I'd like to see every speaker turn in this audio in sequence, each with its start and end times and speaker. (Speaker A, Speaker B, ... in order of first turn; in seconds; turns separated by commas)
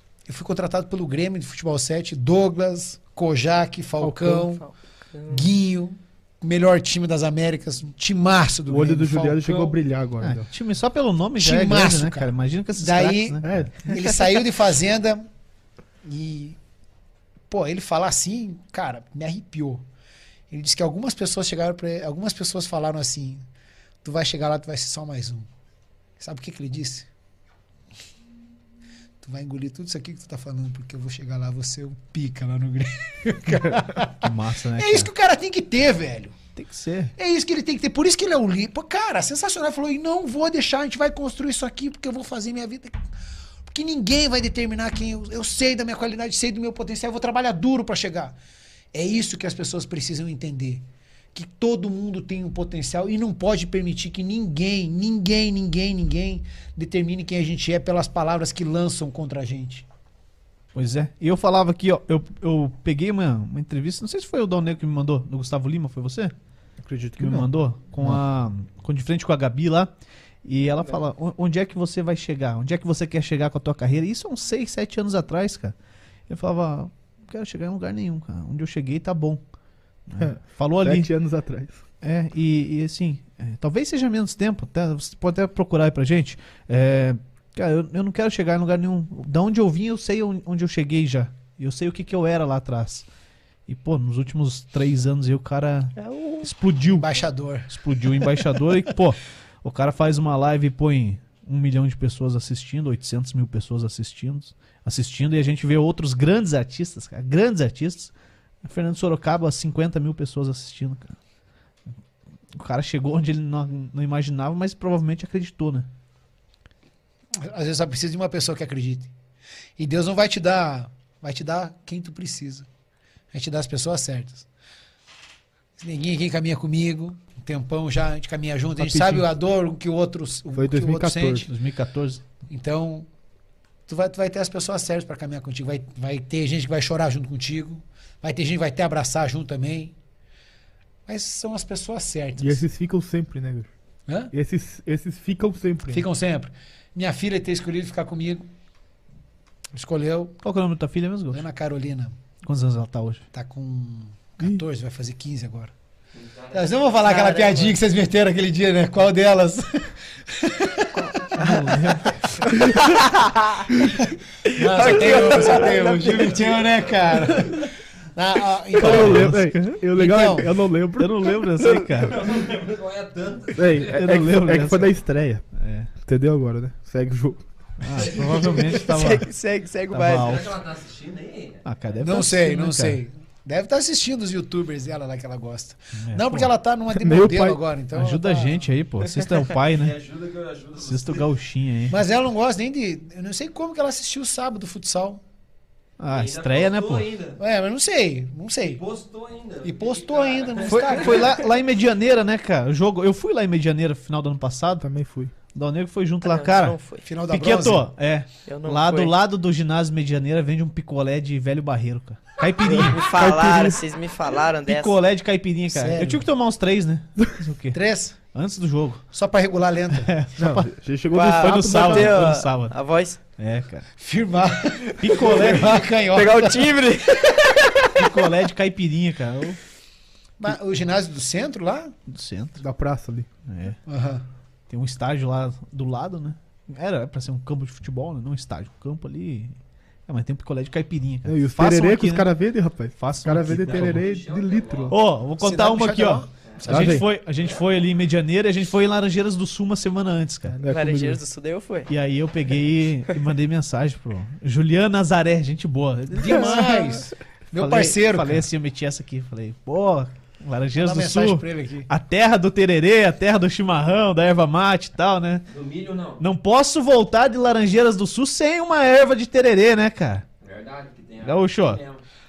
Speaker A: 0.3-4.6, Speaker B: 4.0-4.5, Speaker C: 4.4-5.5, Speaker A: 5.3-9.8, Speaker B: 8.7-10.5, Speaker D: 10.2-13.6, Speaker A: 11.4-15.2, Speaker B: 13.4-13.8, Speaker A: 16.0-16.6, Speaker A: 17.5-19.8, Speaker A: 20.5-23.4, Speaker A: 24.0-25.5, Speaker A: 26.2-27.1, Speaker A: 29.2-36.4, Speaker D: 34.2-35.1, Speaker D: 36.5-37.1, Speaker A: 37.2-43.0, Speaker A: 43.7-48.3, Speaker A: 48.9-59.9, Speaker D: 60.7-66.3, Speaker B: 66.8-67.5, Speaker D: 67.2-69.9, Speaker D: 70.4-75.7, Speaker D: 76.3-79.4, Speaker D: 80.1-81.1, Speaker B: 80.2-81.8, Speaker D: 82.0-93.1, Speaker D: 93.7-97.1, Speaker C: 96.0-96.5, Speaker A: 96.8-98.3, Speaker D: 97.7-108.1, Speaker D: 108.6-111.2, Speaker D: 112.5-115.9, Speaker A: 117.3-119.1, Speaker A: 119.8-122.7, Speaker A: 123.3-124.5, Speaker A: 125.8-131.5, Speaker B: 130.5-131.5, Speaker D: 131.4-132.2, Speaker A: 132.5-133.1, Speaker A: 133.9-139.9, Speaker A: 141.1-142.6, Speaker B: 142.4-143.7, Speaker B: 144.3-146.1, Speaker A: 145.9-148.5, Speaker A: 149.7-150.4, Speaker D: 150.4-151.4, Speaker A: 151.3-152.1, Speaker D: 152.4-153.2, Speaker A: 153.3-155.7, Speaker E: 156.2-157.1, Speaker A: 156.5-162.8, Speaker C: 157.0-157.7, Speaker B: 161.4-162.6, Speaker C: 162.7-163.7, Speaker A: 163.7-170.5, Speaker C: 164.5-166.3, Speaker E: 166.1-166.5, Speaker B: 168.7-171.3, Speaker D: 168.8-169.7, Speaker D: 170.4-172.2, Speaker C: 171.6-171.8, Speaker E: 172.1-174.2, Speaker B: 173.5-178.1, Speaker D: 173.9-175.9, Speaker D: 177.8-179.3, Speaker C: 178.5-180.4, Speaker D: 179.9-180.6, Speaker E: 180.1-181.6, Speaker D: 181.6-183.0, Speaker A: 182.0-188.7, Speaker D: 186.0-186.5, Speaker B: 186.9-187.6, Speaker D: 187.9-190.0, Speaker E: 189.6-191.3, Speaker D: 190.8-192.0, Speaker A: 191.9-195.2, Speaker D: 196.0-197.1, Speaker E: 196.1-197.4, Speaker A: 197.4-198.8, Speaker E: 198.8-201.3, Speaker A: 199.6-201.3, Speaker D: 200.6-213.3, Speaker B: 204.8-205.3, Speaker C: 206.2-207.0, Speaker A: 207.0-207.9, Speaker C: 208.5-209.1, Speaker B: 212.7-213.8, Speaker C: 212.8-214.9, Speaker D: 214.7-217.8, Speaker A: 215.7-216.2, Speaker A: 217.7-218.1, Speaker D: 218.3-219.1, Speaker A: 219.1-220.1, Speaker D: 219.9-223.9, Speaker B: 220.4-222.3, Speaker C: 221.1-223.2, Speaker A: 224.0-226.7, Speaker D: 225.0-225.7, Speaker C: 226.1-227.7, Speaker D: 227.9-229.6, Speaker A: 230.4-231.9, Speaker D: 232.1-232.6, Speaker B: 232.6-233.3, Speaker D: 233.4-233.8, Speaker A: 233.8-234.2, Speaker D: 234.7-239.6, Speaker D: 240.1-242.3, Speaker B: 241.2-245.0, Speaker D: 243.0-244.1, Speaker E: 243.7-244.9, Speaker D: 244.9-250.6, Speaker A: 245.4-246.9, Speaker B: 246.7-247.1, Speaker E: 247.4-247.7, Speaker B: 250.5-251.2, Speaker C: 250.7-251.9, Speaker D: 251.9-257.0, Speaker A: 256.1-258.4, Speaker D: 257.6-265.4, Speaker A: 260.7-261.9, Speaker E: 265.5-266.2, Speaker D: 266.2-270.2, Speaker E: 270.4-272.0, Speaker D: 271.2-271.8